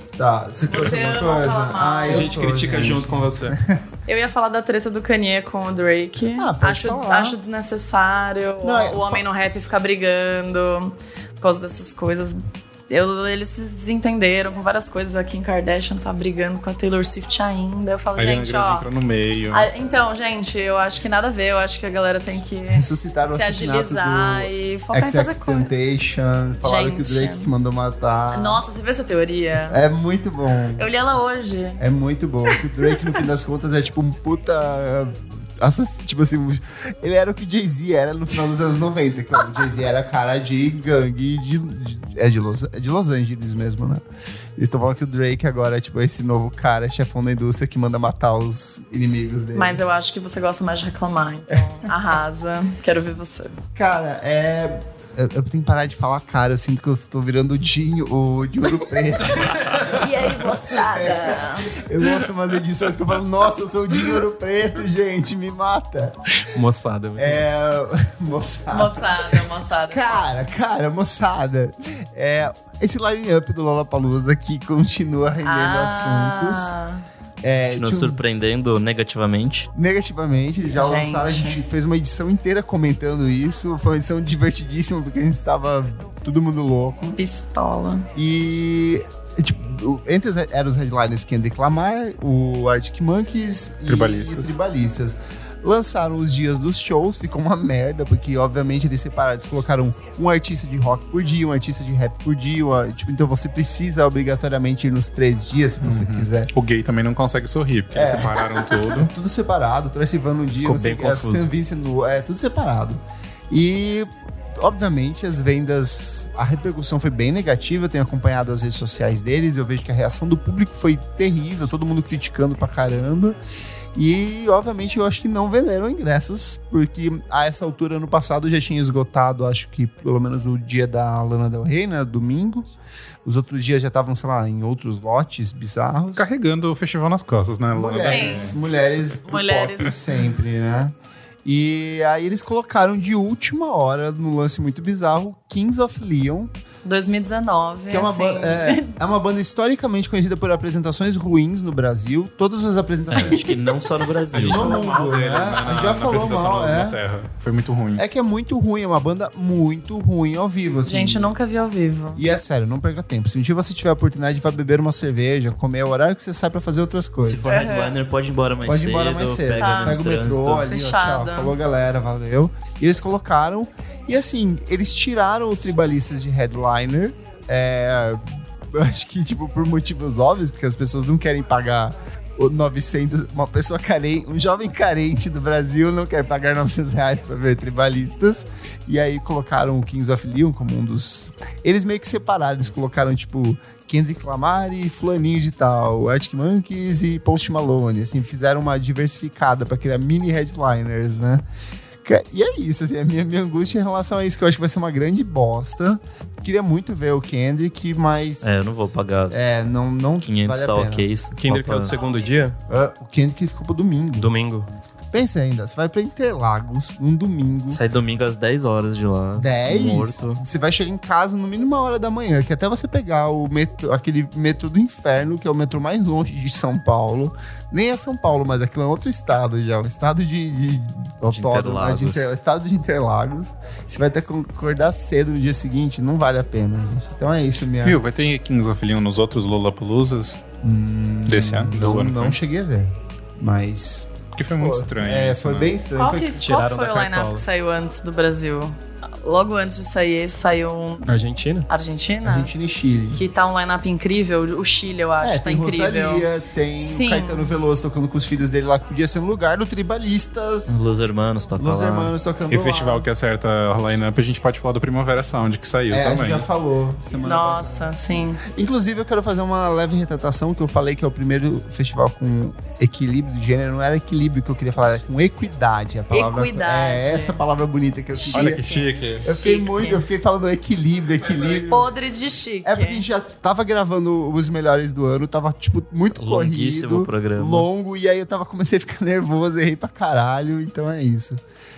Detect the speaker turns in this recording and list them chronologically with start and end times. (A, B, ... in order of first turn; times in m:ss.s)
0:00.2-0:03.8 A
0:00.6-0:02.4 B
0:02.1-0:03.6 C
0:04.1-0:18.9 B
0:06.3-0:07.4 A
0:08.6-0:09.2 A
0:18.2-0:19.7 D
0:19.5-0:25.7 B
0:22.7-0:28.6 A
0:26.6-0:27.5 B
0:28.3-0:29.8 B
0:29.7-0:30.9 A
0:30.8-0:31.8 B
0:31.8-0:44.0 A
0:32.5-0:33.2 B
0:44.6-0:49.8 A
0:49.6-0:53.6 B
0:51.5-0:51.9 A
0:53.8-1:06.2 A
0:59.7-1:01.8 B
1:06.5-1:07.4 C
1:07.2-1:16.8 A
1:08.7-1:10.2 B
1:15.4-1:17.0 B
1:17.4-1:18.2 A
1:17.7-1:19.7 E
1:19.8-1:27.2 A
1:20.7-1:21.6 B
1:27.2-1:28.1 B
1:28.2-1:46.5 A
1:33.9-1:34.6 D
1:45.8-1:49.1 D
1:47.9-2:03.4 A
1:50.6-1:51.5 C
2:04.0-2:12.7 A
2:13.2-2:16.2 A
2:16.2-2:18.6 D
2:17.8-2:26.5 A
2:18.0-2:18.6 B
2:19.3-2:20.0 B
2:26.8-2:29.0 B
2:27.9-2:33.8 A
2:33.1-2:34.8 E
2:34.3-2:38.0 D
2:34.4-2:37.0 A
2:38.0-2:41.3 A
2:40.9-2:42.2 B
2:42.2-2:47.4 A
2:47.2-2:50.7 E
2:47.4-2:48.0 B
2:48.6-3:21.4 A
2:49.6-2:51.6 B
3:22.0-3:31.1 A
3:28.4-3:29.4 E
3:30.2-3:32.0 E
3:31.4-3:32.6 C
3:32.7-3:34.3 A
3:34.2-3:34.7 C
3:35.1-3:37.8 A
3:37.7-3:40.4 E
3:39.4-3:58.0 A
3:51.3-3:52.3 E
3:57.8-4:00.4 D
4:00.6-4:06.4 A
4:01.3-4:02.4 D
4:04.4-4:05.7 D
4:06.0-4:11.2 B
4:06.4-4:07.4 C
4:11.1-4:11.7 C
4:11.7-4:12.5 B
4:12.2-4:13.2 A
4:13.2-4:17.5 B
4:15.2-4:20.8 A
4:20.7-4:22.1 E
4:21.6-4:23.1 A
4:22.5-4:26.4 D
4:25.9-4:27.9 A
4:27.2-4:28.4 B
4:28.4-4:38.6 A
4:36.1-4:37.4 B
4:38.2-4:40.0 B
4:38.3-4:39.3 D
4:39.2-4:41.9 A
4:41.7-4:43.1 B
4:42.6-4:51.4 A
4:46.2-4:47.7 E